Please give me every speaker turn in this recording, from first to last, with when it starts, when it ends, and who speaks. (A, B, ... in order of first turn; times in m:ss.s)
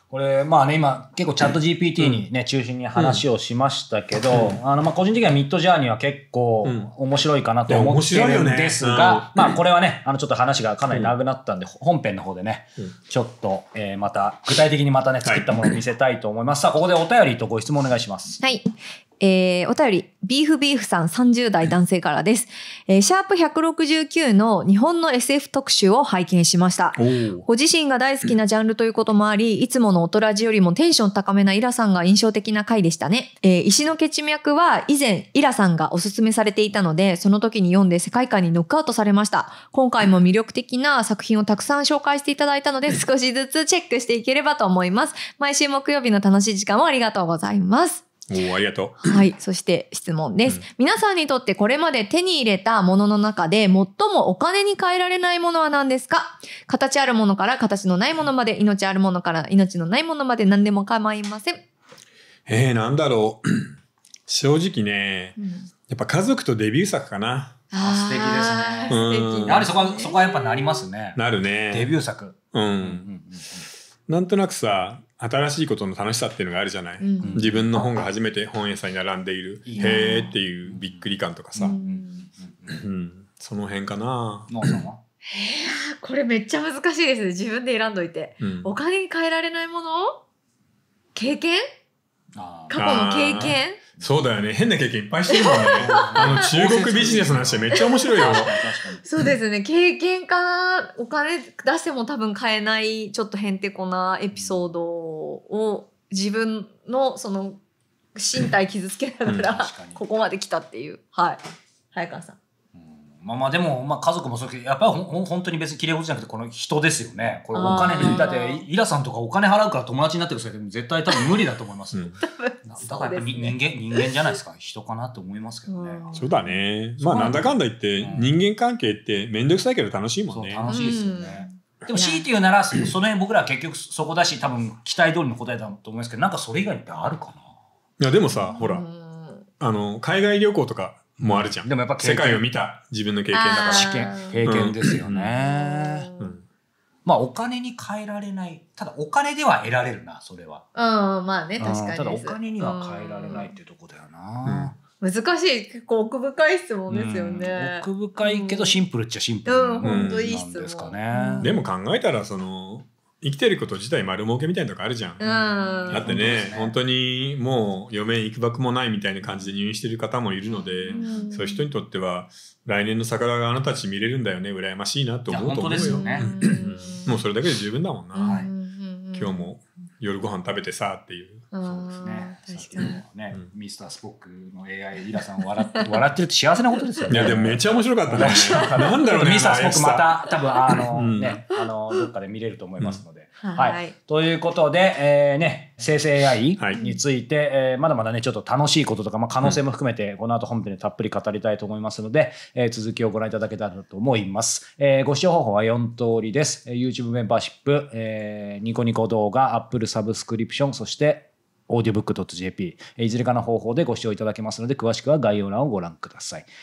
0:00.1-0:18.4 A
0:03.0-0:03.2 B
0:06.6-0:06.9 B
0:07.7-0:09.4 B
0:15.2-0:15.5 B
0:18.4-0:48.0 C
0:27.0-0:27.4 B
0:48.3-0:49.1 B
0:49.0-1:01.6 C
1:02.5-1:03.8 B
1:04.3-1:07.6 B
1:05.4-1:05.7 C
1:07.7-1:10.9 C
1:07.7-1:13.6 A
1:08.9-1:09.7 B
1:11.2-1:11.9 B
1:12.5-1:13.1 B
1:14.1-1:21.8 B
1:17.0-1:17.4 C
1:17.2-1:17.7 A
1:19.6-1:20.1 A
1:19.8-1:20.4 C
1:20.7-1:22.8 A
1:21.6-1:22.3 C
1:22.7-1:24.7 B
1:24.5-1:25.0 A
1:25.3-1:30.2 C
1:28.4-1:28.7 B
1:31.1-1:31.6 C
1:32.3-1:34.1 A
1:32.7-1:33.8 C
1:32.7-1:38.5 B
1:35.3-1:36.5 C
1:35.7-1:39.0 A
1:37.7-1:47.6 C
1:44.3-1:44.7 A
1:48.2-1:51.4 C
1:49.4-1:50.0 A
1:51.9-1:52.4 C
1:52.7-2:06.1 A
1:57.5-1:58.7 C
2:02.2-2:04.4 C
2:05.7-2:07.4 C
2:06.1-2:10.8 B
2:07.0-2:08.3 A
2:10.3-2:17.4 A
2:10.6-2:12.3 C
2:18.0-2:18.8 B
2:18.3-2:19.4 C
2:19.6-2:25.3 B
2:21.2-2:22.4 A
2:23.3-2:24.4 C
2:23.6-2:26.1 A
2:25.4-2:26.4 C
2:27.0-2:30.6 A
2:30.7-2:33.5 C
2:31.6-2:34.8 A
2:34.4-2:34.7 B
2:35.0-2:38.8 C
2:36.9-2:41.5 A
2:39.4-2:41.7 C
2:39.8-2:40.3 B
2:41.4-2:45.2 B
2:45.2-2:46.2 C
2:45.2-2:46.8 A
2:45.9-2:58.4 B
2:50.8-2:51.3 A
2:50.9-2:51.6 C
2:55.3-2:56.3 A
2:55.8-2:57.2 C
2:58.1-2:59.5 C
2:58.2-2:58.5 A
2:59.1-3:01.4 B
3:01.5-3:03.0 C
3:01.6-3:36.5 A
3:05.2-3:06.0 C
3:07.1-3:10.1 B
3:08.3-3:08.6 C
3:10.7-3:11.4 B
3:13.4-3:13.9 C